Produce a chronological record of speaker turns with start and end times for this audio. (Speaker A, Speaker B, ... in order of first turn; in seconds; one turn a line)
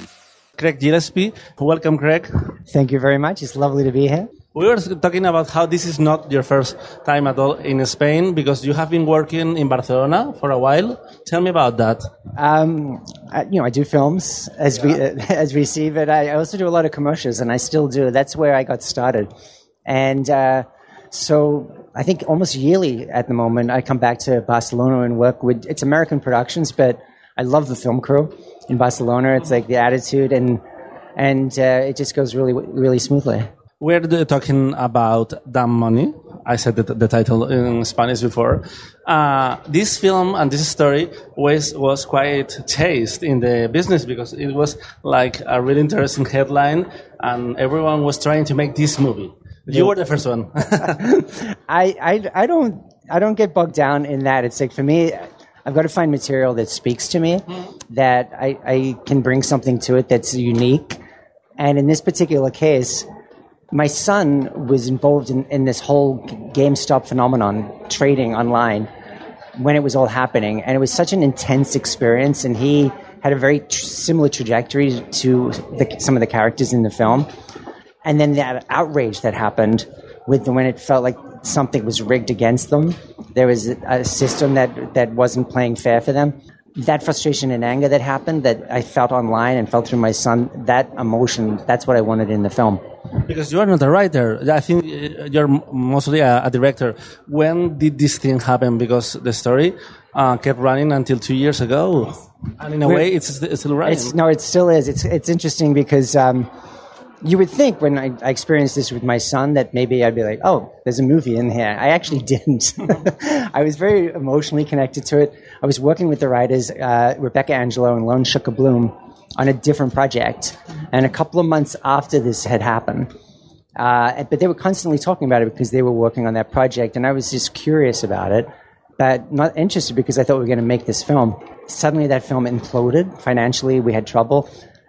Speaker A: 0.6-2.3
Speaker B: 2.7-4.3
Speaker A: 4.5-12.1
Speaker B: 12.3-19.3
Speaker B: 19.9-30.6
Speaker B: 31.1-33.4
Speaker A: 33.8-51.0
Speaker B: 50.9-61.0
Speaker B: 61.6-63.1
Speaker B: 63.7-68.9
Speaker B: 69.5-77.3
Speaker B: 78.0-92.8
Speaker A: 93.2-104.1
Speaker B: 103.8-106.5
Speaker B: 107.2-123.1
Speaker B: 123.8-134.5